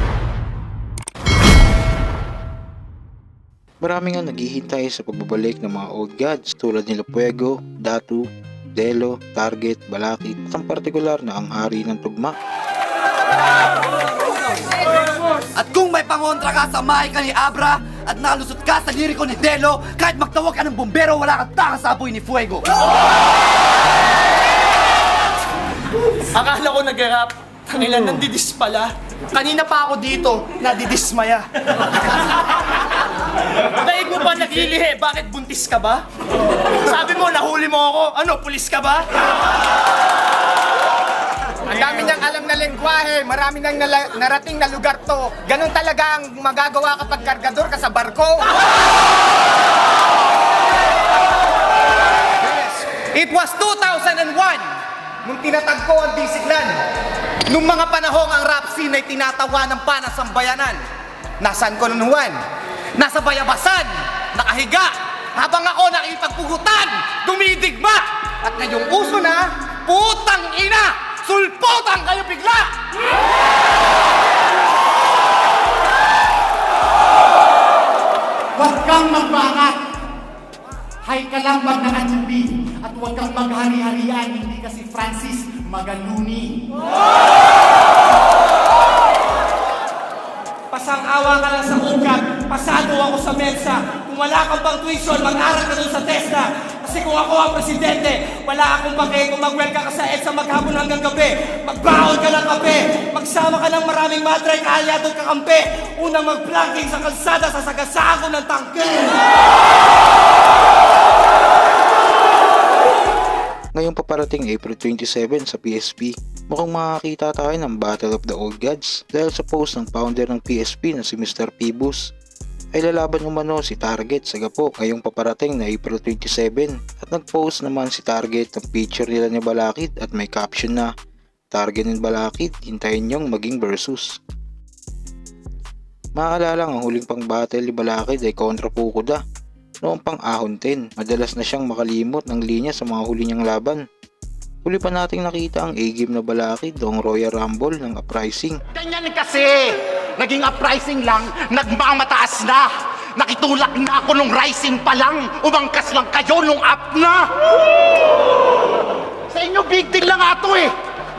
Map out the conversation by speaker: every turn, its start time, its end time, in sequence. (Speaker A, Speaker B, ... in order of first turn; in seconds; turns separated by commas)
Speaker A: 3.8-12.3, Speaker B: 15.5-22.6, Speaker C: 26.3-32.2, Speaker C: 33.8-36.0, Speaker C: 36.6-39.1, Speaker D: 41.7-48.5, Speaker D: 52.4-54.7, Speaker D: 55.2-56.8, Speaker D: 57.5-60.8, Speaker D: 61.4-62.4, Speaker D: 63.0-72.7, Speaker E: 78.5-79.8, Speaker E: 81.0-86.7, Speaker C: 90.7-109.2, Speaker A: 113.7-122.1, Speaker A: 122.7-130.9, Speaker A: 131.5-134.2, Speaker A: 136.2-139.2, Speaker A: 139.8-143.8, Speaker A: 144.6-148.6, Speaker E: 148.7-157.3, Speaker E: 159.3-160.7